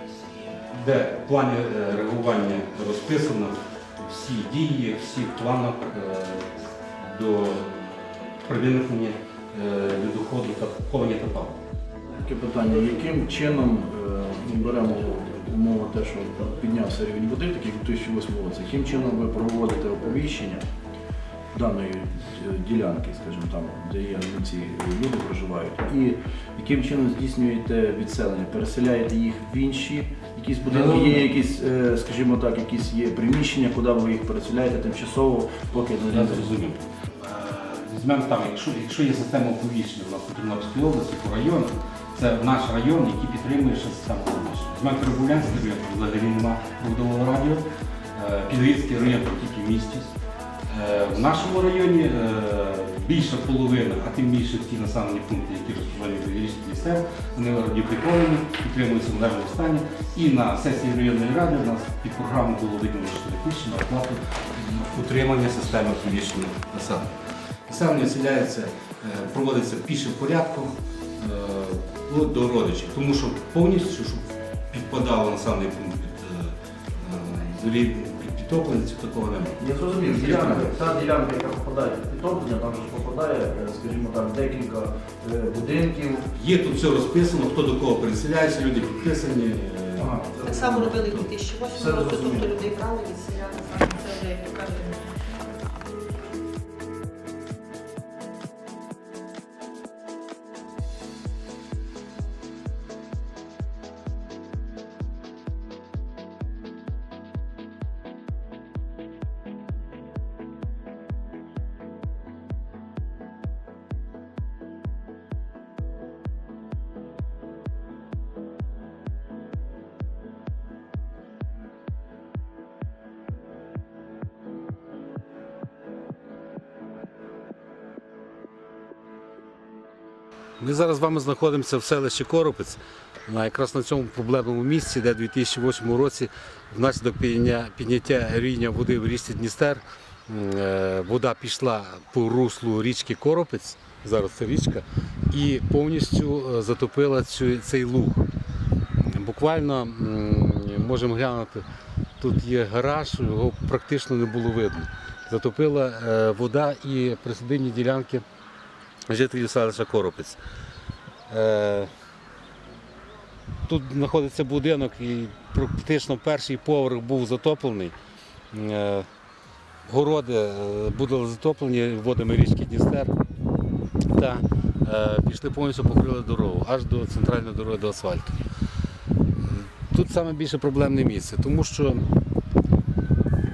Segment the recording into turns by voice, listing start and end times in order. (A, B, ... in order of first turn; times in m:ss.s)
0:00.6-0:11.6 A
0:12.1-0:20.6 B
0:21.5-0:36.5 B
0:30.7-0:31.3 A
0:36.1-0:50.1 A
0:50.7-1:07.1 A
1:07.7-1:20.7 A
1:19.6-1:26.3 B
1:26.3-1:30.1 A
1:30.0-1:31.2 B
1:30.4-1:35.0 C
1:31.7-1:32.6 B
2:10.6-2:28.2 A
2:29.0-2:31.6 A
2:32.2-2:38.2 A
2:39.1-2:40.4 A
2:41.3-2:41.9 A
2:43.7-2:47.9 A
2:48.5-2:49.1 A
2:49.8-2:53.1 A
2:54.1-2:58.3 A
2:59.4-3:02.0 A